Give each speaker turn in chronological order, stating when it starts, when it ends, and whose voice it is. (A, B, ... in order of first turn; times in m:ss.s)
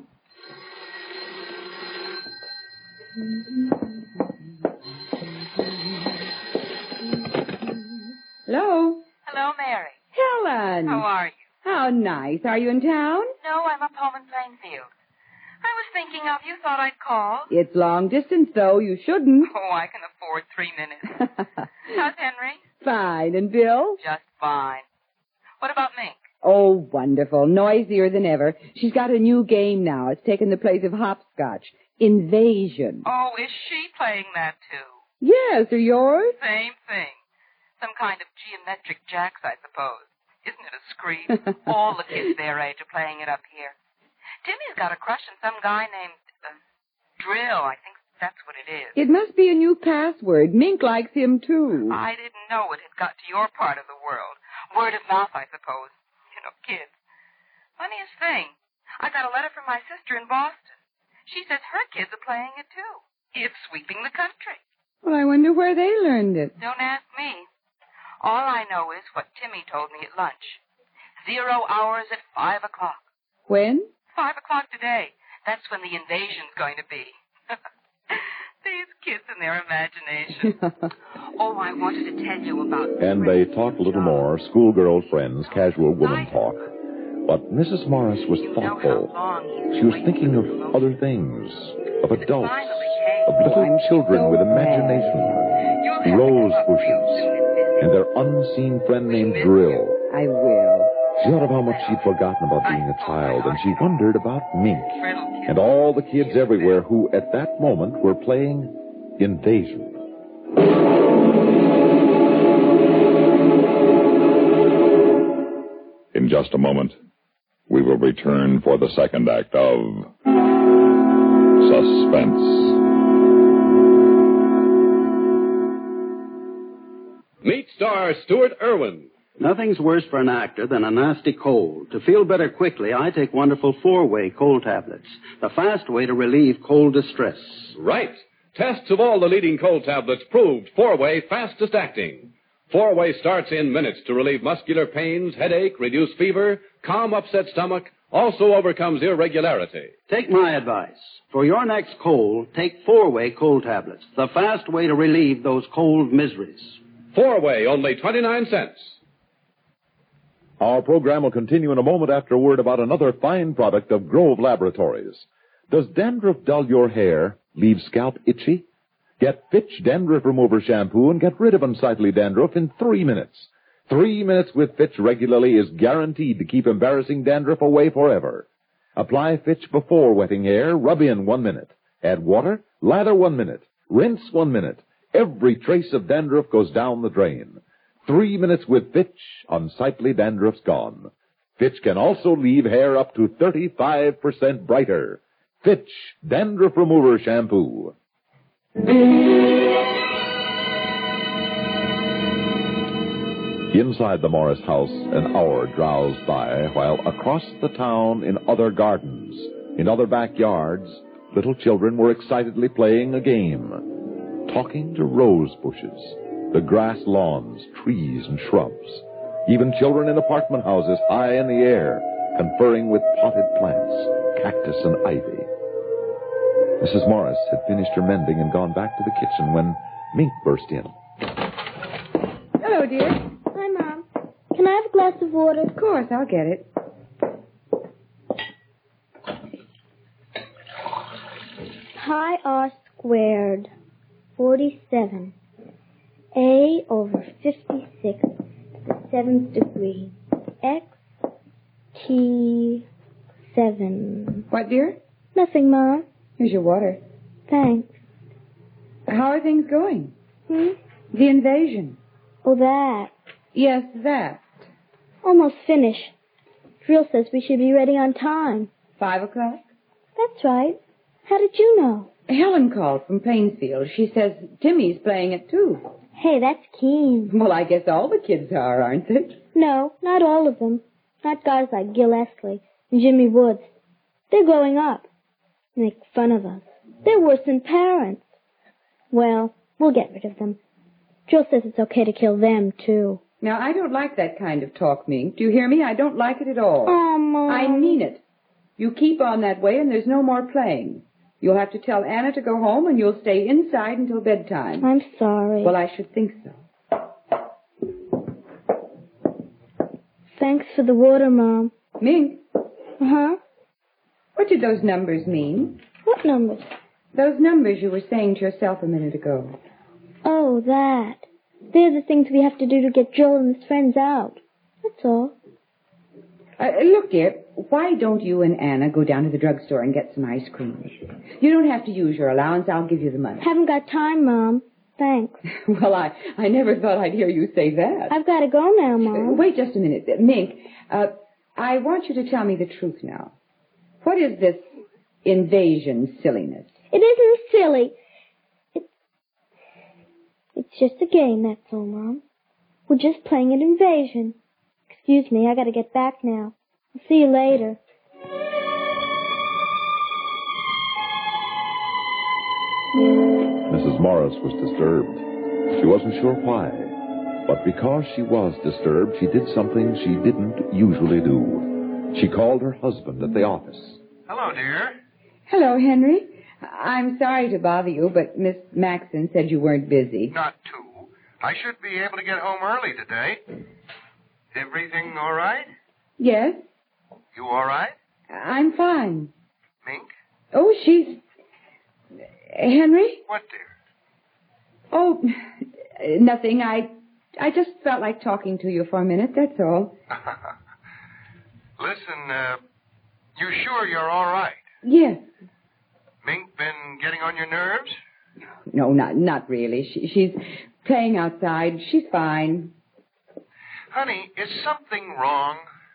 0:08.5-0:09.1 A
0:09.2-0:10.0 B
0:10.1-0:11.1 A
0:10.9-0:11.4 B
0:11.6-0:13.3 A
0:13.4-0:14.9 B
0:15.6-0:17.5 B
0:17.5-0:19.5 A
0:19.5-0:21.3 B
0:22.0-0:22.6 B
0:22.8-0:24.0 A
0:24.0-0:24.8 B
0:25.6-0:26.2 B
0:26.4-0:33.1 A
0:33.0-0:34.9 B
0:35.2-0:36.4 A
0:36.4-0:37.2 B
0:37.8-0:43.7 B
0:41.7-0:42.3 A
0:44.4-0:46.2 B
0:47.2-0:48.9 B
0:48.9-0:52.0 A
0:51.9-0:55.9 B
0:56.4-0:56.9 B
0:57.8-1:00.7 B
1:01.4-1:04.6 B
1:05.0-1:06.5 A
1:06.6-1:07.4 B
1:08.3-1:10.6 B
1:11.2-1:13.0 B
1:13.5-1:13.9 A
1:14.1-1:17.1 B
1:18.6-1:20.4 B
1:21.4-1:23.3 B
1:23.0-1:26.7 C
1:27.2-1:29.1 C
1:28.4-1:30.8 B
1:29.7-1:37.3 C
1:32.3-1:33.5 B
1:33.5-1:35.4 A
1:35.8-1:37.8 B
1:37.8-1:40.0 C
1:39.1-1:39.8 B
1:40.1-1:40.9 A
1:41.2-1:50.0 C
1:41.7-1:42.0 B
1:42.6-1:43.9 B
1:45.0-1:45.6 B
1:46.2-1:46.8 B
1:56.1-1:56.9 D
1:57.7-2:00.1 D
2:01.6-2:02.8 D
2:07.4-2:09.1 E
2:09.4-2:17.7 F
2:17.7-2:29.9 E
2:30.1-2:36.8 F
2:37.1-2:39.0 E
2:40.6-2:48.6 C
2:49.2-3:17.9 C
3:23.7-3:45.5 C
3:46.8-3:50.9 C
3:52.6-3:53.2 A
3:53.5-3:55.7 G
3:55.7-3:56.7 A
4:02.0-4:03.7 G
4:04.4-4:05.3 G
4:06.3-4:08.3 G
4:08.9-4:10.9 G
4:11.9-4:12.8 G
4:13.5-4:14.4 G
4:14.5-4:15.0 A
4:15.3-4:16.0 G
4:16.4-4:17.0 A
4:17.5-4:17.9 G
4:19.1-4:20.1 A
4:20.5-4:20.8 G
4:21.1-4:22.0 A
4:22.4-4:23.1 G
4:23.5-4:24.4 A
4:25.2-4:26.1 G
4:26.8-4:28.7 G
4:29.0-4:29.6 A
4:30.2-4:32.1 G
4:32.3-4:35.8 A
4:36.2-4:37.3 G
4:37.3-4:39.4 A
4:39.5-4:43.7 G
4:44.3-4:45.1 G
4:45.8-4:48.2 G
4:49.1-4:50.6 G
4:51.3-4:53.2 G
4:53.4-4:57.0 A
4:56.8-4:58.0 G
4:57.5-4:58.2 A
4:58.8-5:04.8 A
5:04.8-5:05.7 G
5:05.6-5:06.5 A
5:10.4-5:11.7 G
5:12.0-5:12.4 A
5:13.0-5:13.4 G
5:14.4-5:15.8 A
5:16.0-5:16.7 G
5:17.1-5:19.6 A
5:20.2-5:25.3 G
5:26.6-5:33.4 A
5:33.4-5:35.4 G
5:35.6-5:38.1 A
5:38.1-5:39.4 G
5:39.0-5:43.3 A
5:44.0-5:44.6 A
5:45.2-5:46.7 A
5:46.9-5:47.9 G
5:50.5-5:52.2 G
5:52.9-5:54.4 G
5:54.9-5:57.8 G
6:03.7-6:06.9 C
6:07.4-6:14.0 C
6:14.3-6:14.9 H
6:15.5-6:20.3 A
6:20.3-6:23.4 H
6:24.5-6:25.7 H
6:26.2-6:26.6 A
6:27.3-6:27.9 H
6:28.3-6:29.3 A
6:30.5-6:31.2 A
6:32.5-6:33.2 A
6:33.3-6:33.6 H
6:34.9-6:35.3 A
6:36.0-6:39.9 A
6:41.8-6:42.6 H
6:43.4-6:44.6 H
6:44.8-6:45.2 A
6:46.2-6:48.0 H
6:48.7-6:52.7 A
6:53.9-6:55.6 H